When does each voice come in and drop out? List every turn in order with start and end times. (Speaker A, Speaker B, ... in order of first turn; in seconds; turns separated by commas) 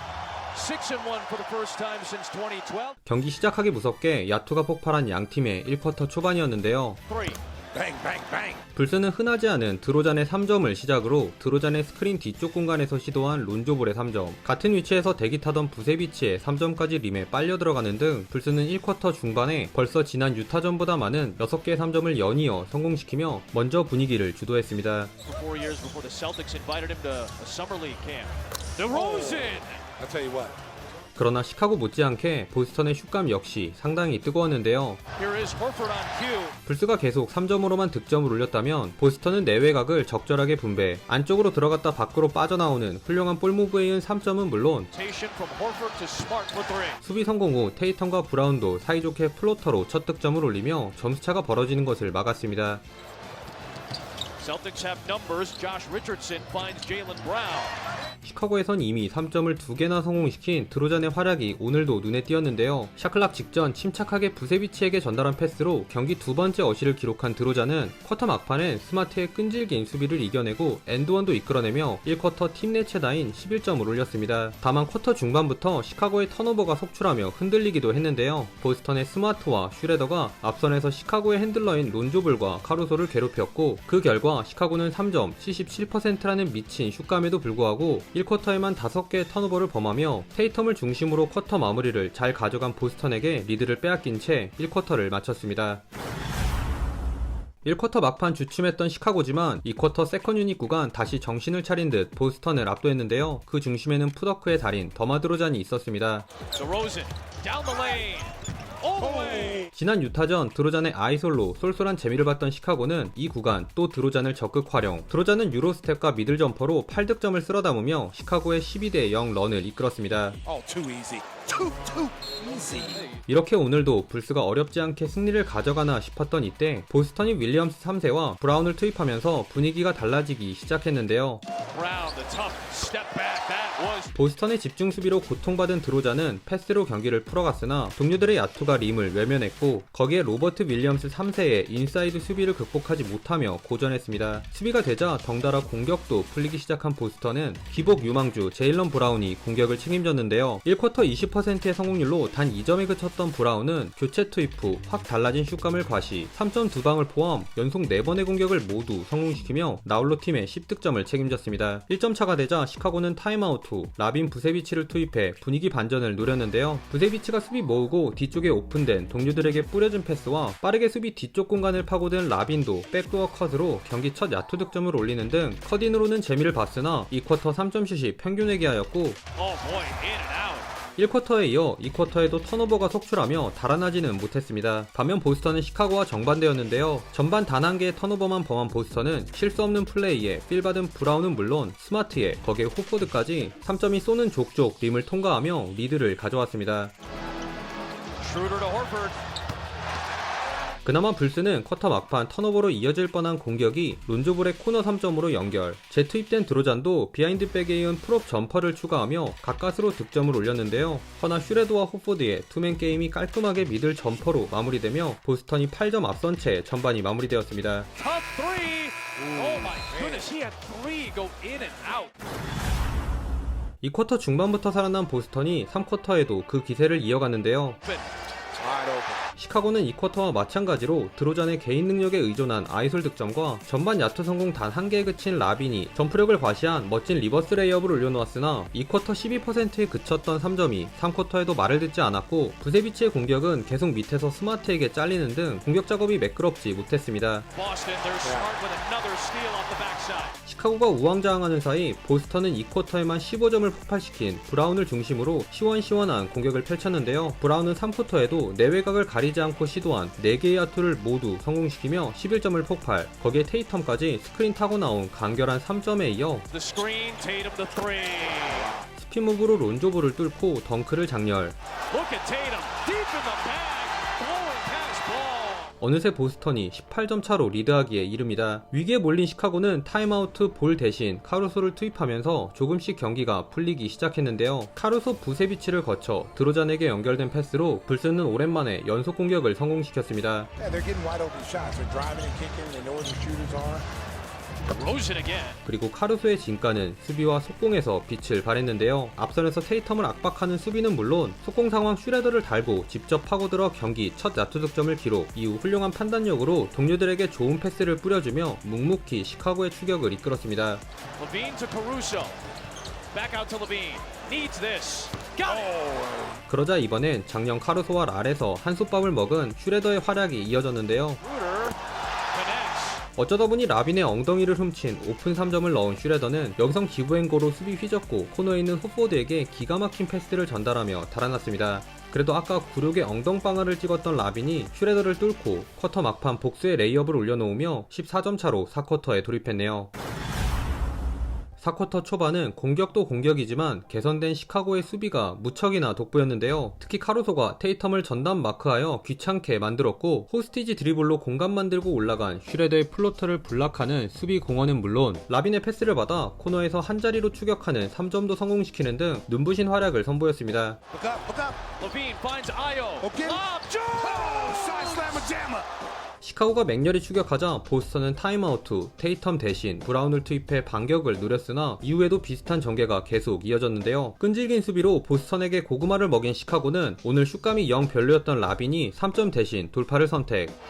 Speaker A: 0.5-3.0, Speaker B: 3.1-7.0, Speaker A: 7.1-7.4, Speaker C: 7.7-8.6, Speaker B: 8.8-25.1, Speaker A: 25.2-29.8, Speaker C: 28.9-30.6, Speaker B: 31.2-35.0, Speaker A: 35.2-36.5, Speaker B: 36.7-44.9, Speaker A: 44.9-47.0, Speaker B: 47.0-52.8, Speaker A: 54.4-57.8, Speaker B: 58.2-95.8, Speaker B: 97.7-106.3, Speaker A: 106.5-109.7, Speaker C: 109.3-109.7, Speaker B: 109.7-120.4, Speaker C: 120.5-123.1, Speaker A: 122.9-123.2, Speaker B: 123.3-131.4, Speaker A: 131.7-134.1, Speaker B: 134.1-179.2, Speaker A: 179.3-180.7, Speaker B: 181.0-196.9, Speaker A: 198.2-199.2, Speaker B: 200.8-217.9, Speaker A: 218.0-222.1, Speaker C: 219.2-220.3, Speaker B: 223.8-227.8, Speaker A: 227.8-228.1, Speaker C: 228.6-229.2, Speaker B: 229.4-247.5, Speaker A: 247.5-250.3, Speaker C: 248.2-248.5, Speaker B: 250.5-266.5, Speaker A: 266.5-268.8, Speaker B: 269.0-271.6, Speaker A: 271.9-275.7, Speaker B: 275.8-290.5, Speaker C: 290.6-293.9, Speaker A: 294.7-295.6, Speaker B: 295.6-310.8, Speaker A: 311.2-312.4, Speaker A: 313.1-315.8, Speaker C: 315.5-316.4, Speaker B: 316.5-321.2, Speaker A: 321.2-321.8, Speaker A: 322.3-323.0, Speaker B: 323.2-339.9, Speaker B: 341.6-360.8, Speaker C: 360.9-361.6, Speaker A: 361.8-365.3, Speaker C: 363.0-365.7, Speaker B: 366.2-380.5